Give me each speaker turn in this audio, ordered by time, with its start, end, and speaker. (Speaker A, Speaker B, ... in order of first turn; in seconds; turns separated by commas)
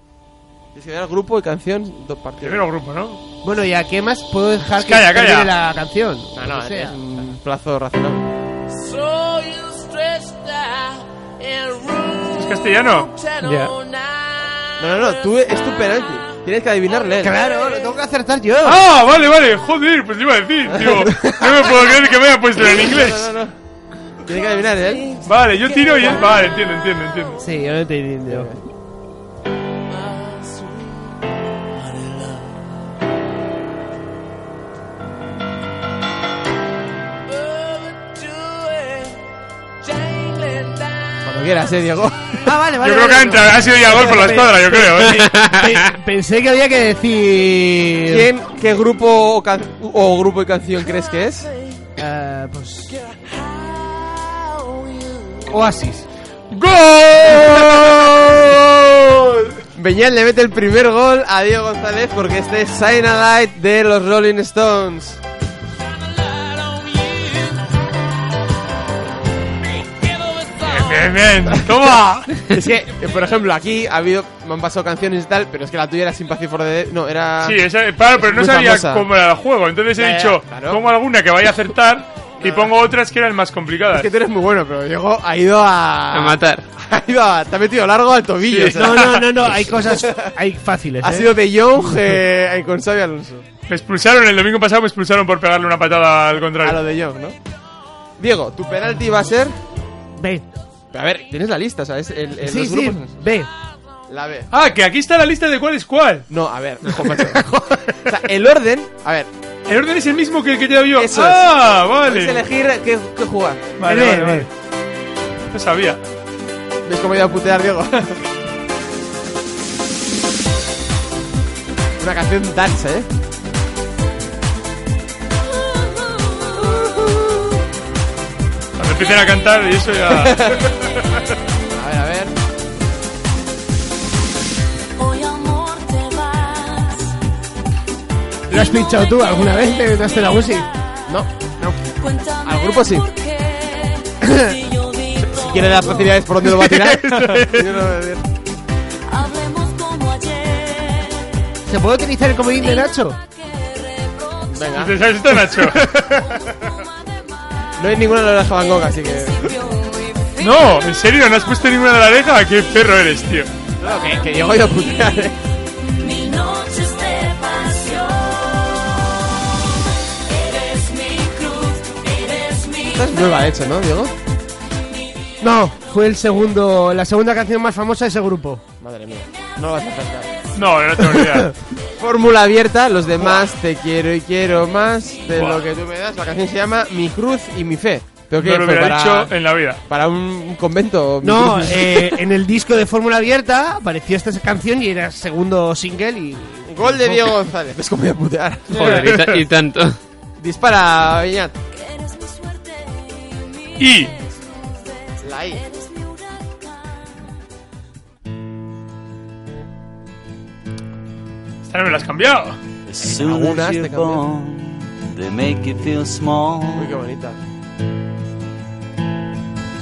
Speaker A: 0.7-2.6, Speaker B: 2.4-3.2, Speaker C: 3.4-7.0, Speaker B: 4.8-5.5, Speaker A: 6.3-8.3, Speaker B: 12.3-13.2, Speaker D: 13.4-13.7, Speaker A: 14.8-17.3, Speaker C: 17.2-18.8, Speaker B: 18.6-23.3, Speaker A: 20.7-21.9, Speaker A: 22.5-23.5, Speaker A: 24.2-25.2, Speaker B: 25.2-27.4, Speaker C: 27.4-28.5, Speaker A: 28.3-28.6, Speaker A: 41.2-42.5, Speaker C: 42.4-48.3, Speaker B: 42.8-45.3, Speaker A: 48.1-51.5, Speaker C: 52.0-53.0, Speaker C: 55.4-56.1, Speaker B: 56.5-59.3, Speaker A: 57.3-58.0, Speaker A: 59.7-65.2, Speaker B: 70.6-72.4, Speaker A: 72.4-79.0, Speaker B: 77.4-84.1, Speaker A: 80.0-80.8, Speaker A: 82.4-82.7, Speaker A: 83.9-90.3, Speaker D: 86.1-86.6, Speaker B: 88.5-89.2, Speaker C: 88.7-91.9, Speaker A: 91.0-93.5, Speaker B: 93.7-96.8, Speaker A: 96.6-97.3, Speaker A: 98.2-99.5, Speaker C: 100.2-100.4, Speaker A: 100.9-103.1, Speaker C: 102.4-103.5, Speaker A: 104.1-104.5, Speaker B: 104.5-106.2, Speaker A: 106.3-107.5, Speaker C: 107.3-108.0, Speaker A: 108.0-109.3, Speaker B: 109.7-112.4, Speaker A: 111.0-113.7, Speaker B: 113.8-114.5, Speaker C: 113.8-114.5, Speaker B: 115.5-116.0, Speaker A: 116.8-118.2, Speaker A: 122.0-123.1, Speaker E: 125.8-126.7, Speaker B: 128.8-130.5, Speaker A: 130.1-130.7, Speaker A: 131.7-132.3, Speaker E: 134.9-137.1, Speaker C: 138.5-140.7, Speaker E: 138.5-139.2, Speaker E: 142.0-146.0, Speaker A: 142.4-143.1, Speaker C: 144.2-144.5, Speaker A: 145.2-148.2, Speaker C: 146.4-147.5, Speaker E: 149.1-151.3, Speaker C: 151.7-153.2, Speaker E: 153.4-154.6, Speaker A: 154.5-155.0, Speaker B: 154.7-155.8, Speaker C: 155.8-156.2, Speaker A: 157.8-159.5, Speaker E: 159.4-160.5, Speaker B: 160.4-163.5, Speaker A: 163.8-165.4, Speaker E: 164.1-164.4, Speaker E: 165.8-169.6, Speaker E: 170.2-173.1, Speaker A: 172.9-174.1, Speaker C: 175.4-178.6, Speaker A: 178.8-180.4, Speaker B: 180.5-181.5, Speaker A: 181.9-189.3, Speaker B: 183.2-183.5, Speaker B: 185.3-185.6, Speaker B: 188.4-189.8, Speaker A: 189.8-192.2, Speaker C: 191.2-197.3, Speaker A: 196.7-199.3, Speaker D: 198.7-200.0, Speaker B: 198.7-199.2, Speaker A: 200.4-201.6, Speaker E: 201.8-204.1, Speaker B: 203.8-204.1, Speaker E: 204.7-205.0, Speaker A: 205.2-205.6, Speaker E: 205.6-206.7, Speaker B: 211.7-212.6, Speaker F: 212.8-216.9, Speaker A: 213.0-214.2, Speaker A: 216.8-217.4